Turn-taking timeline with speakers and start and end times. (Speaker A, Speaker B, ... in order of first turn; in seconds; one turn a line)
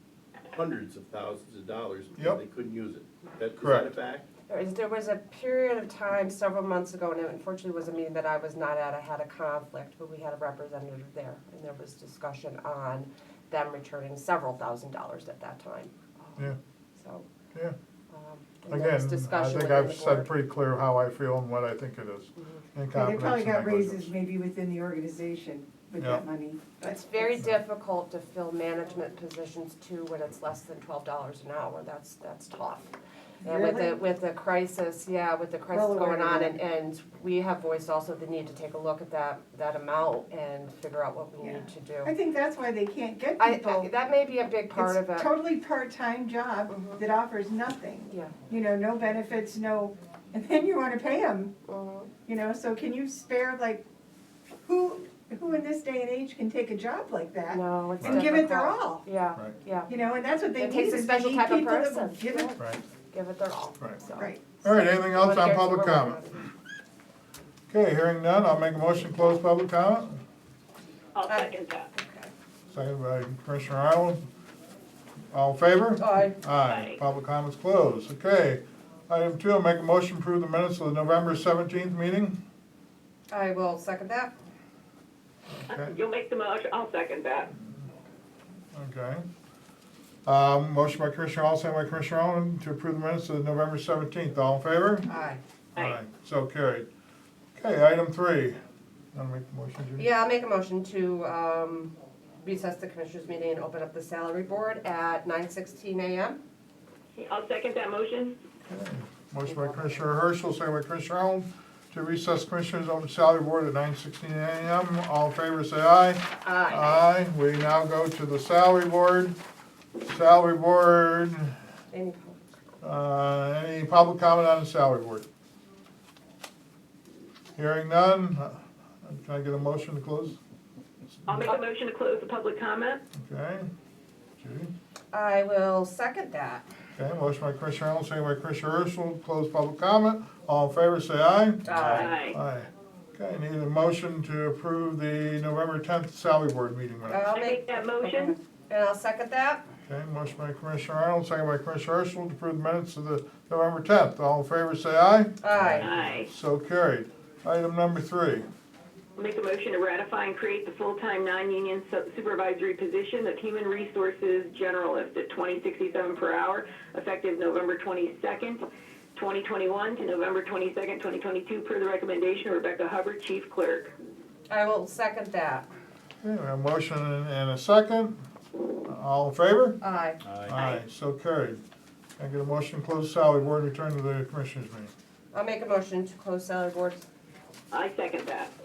Speaker A: 0.5-4.3
Speaker B: 3.6-3.9
Speaker C: 4.5-17.3
Speaker C: 18.1-20.3
Speaker B: 18.7-24.1
Speaker D: 22.9-27.3
Speaker B: 26.0-26.2
Speaker C: 26.8-32.9
Speaker D: 33.4-33.9
Speaker C: 33.5-42.1
Speaker D: 35.7-36.5
Speaker D: 41.4-43.9
Speaker C: 43.4-45.3
Speaker D: 44.7-51.5
Speaker C: 46.7-47.0
Speaker C: 51.6-52.1
Speaker D: 52.2-53.8
Speaker D: 54.6-59.0
Speaker C: 57.5-59.9
Speaker B: 58.0-58.3
Speaker D: 59.9-62.5
Speaker C: 60.5-66.5
Speaker D: 64.2-64.5
Speaker B: 64.6-66.2
Speaker B: 67.7-70.2
Speaker E: 71.2-71.9
Speaker C: 71.3-72.3
Speaker B: 72.7-74.2
Speaker B: 75.3-82.4
Speaker C: 76.0-76.3
Speaker E: 76.7-77.0
Speaker C: 83.3-84.3
Speaker B: 85.5-86.0
Speaker E: 85.7-87.5
Speaker B: 88.7-89.2
Speaker B: 90.2-95.1
Speaker C: 95.1-95.4
Speaker B: 95.8-96.9
Speaker B: 97.5-98.6
Speaker B: 99.1-100.1
Speaker C: 100.0-106.4
Speaker E: 107.2-108.3
Speaker B: 108.7-119.3
Speaker C: 116.4-117.0
Speaker B: 120.1-121.5
Speaker C: 121.9-122.5
Speaker B: 122.8-125.2
Speaker B: 127.5-130.4
Speaker E: 131.3-133.0
Speaker B: 133.1-133.7
Speaker B: 134.4-134.7
Speaker C: 135.1-136.7
Speaker B: 137.0-147.2
Speaker C: 141.6-142.2
Speaker E: 141.9-142.4
Speaker C: 147.1-149.6
Speaker E: 147.3-148.3
Speaker B: 149.9-158.4
Speaker C: 155.4-155.9
Speaker E: 155.8-156.3
Speaker E: 159.2-168.6
Speaker E: 169.1-173.9
Speaker C: 174.5-175.7
Speaker B: 176.2-178.2
Speaker B: 178.8-179.8
Speaker C: 179.8-180.2
Speaker B: 180.4-181.6
Speaker B: 182.2-184.9
Speaker C: 185.3-187.1
Speaker E: 187.7-188.5